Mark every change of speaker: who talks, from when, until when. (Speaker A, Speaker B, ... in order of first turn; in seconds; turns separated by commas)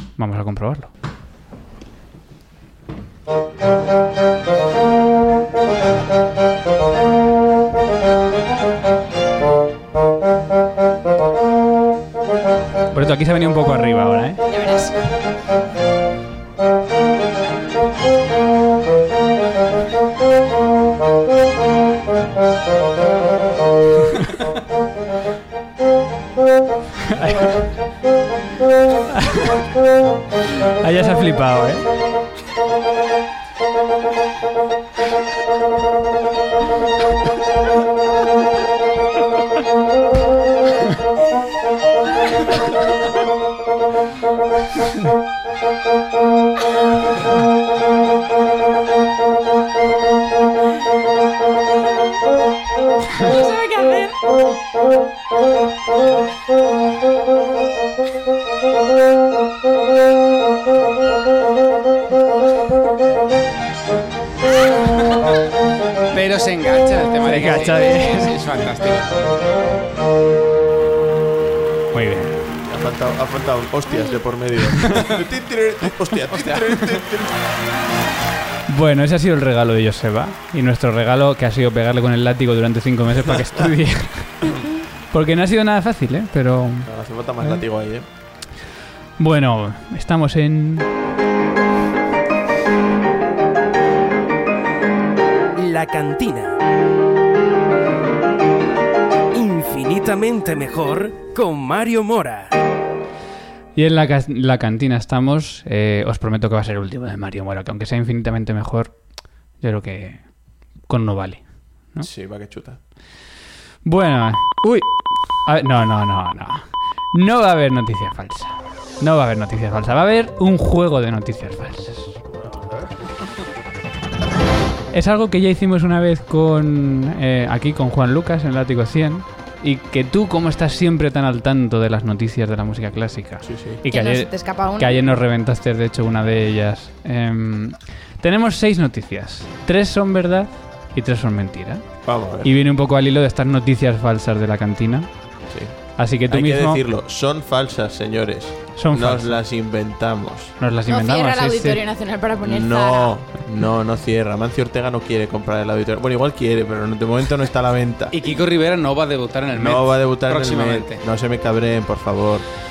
Speaker A: 0.2-0.9, Speaker A: 12.9-14.4, Speaker B: 14.5-14.9, Speaker A: 27.1-27.7, Speaker A: 30.8-31.9, Speaker B: 53.2-54.1, Speaker C: 66.1-69.2, Speaker A: 67.2-68.3, Speaker A: 71.9-72.4, Speaker D: 72.6-77.3, Speaker B: 73.9-74.2, Speaker A: 78.7-84.6, Speaker A: 85.1-86.9, Speaker D: 86.9-88.1, Speaker A: 89.2-90.9, Speaker E: 95.6-96.6, Speaker E: 99.3-102.5, Speaker A: 103.8-108.9, Speaker A: 109.6-110.2, Speaker A: 110.9-112.1, Speaker D: 112.0-112.8, Speaker A: 113.8-122.2, Speaker D: 122.3-122.9, Speaker A: 124.9-145.1, Speaker D: 133.4-133.8, Speaker B: 133.9-135.1, Speaker D: 142.0-142.5, Speaker D: 145.4-150.6, Speaker A: 146.0-146.8, Speaker A: 148.8-149.4, Speaker A: 150.6-151.8, Speaker B: 150.9-153.1, Speaker D: 152.4-158.2, Speaker C: 158.1-161.0, Speaker D: 159.5-162.5